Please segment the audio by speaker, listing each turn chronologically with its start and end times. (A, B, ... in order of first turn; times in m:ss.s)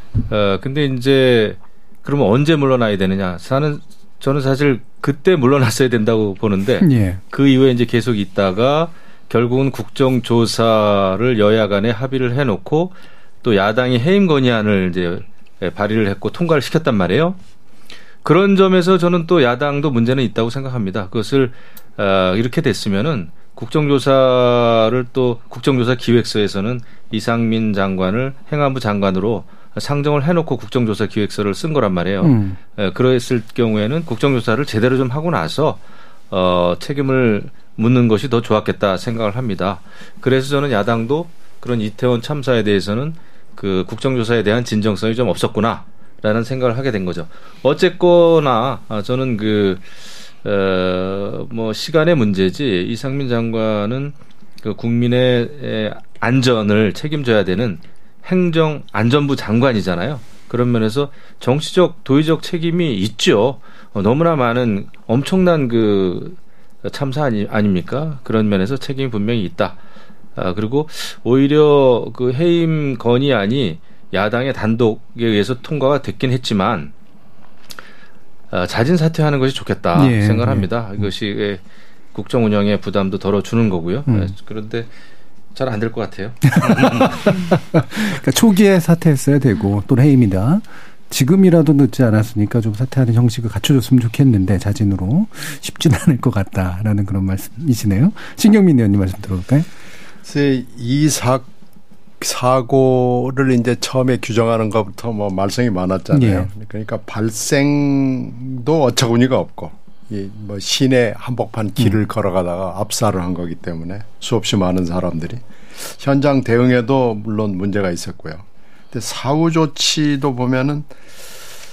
0:00.3-0:17.4 A
0:06.8-0:07.2 B
0:18.2-0:35.8 A
0:32.2-0:32.6 B
0:36.3-0:49.8 A
0:50.4-1:09.8 A
1:10.4-1:16.9 A
1:18.5-1:21.6 A
1:20.0-1:20.7 B
1:22.1-1:24.9 A
1:25.6-1:27.2 A
1:26.5-1:39.7 B
1:40.2-1:41.5 C
1:42.2-2:00.9 C
1:46.1-1:46.5 B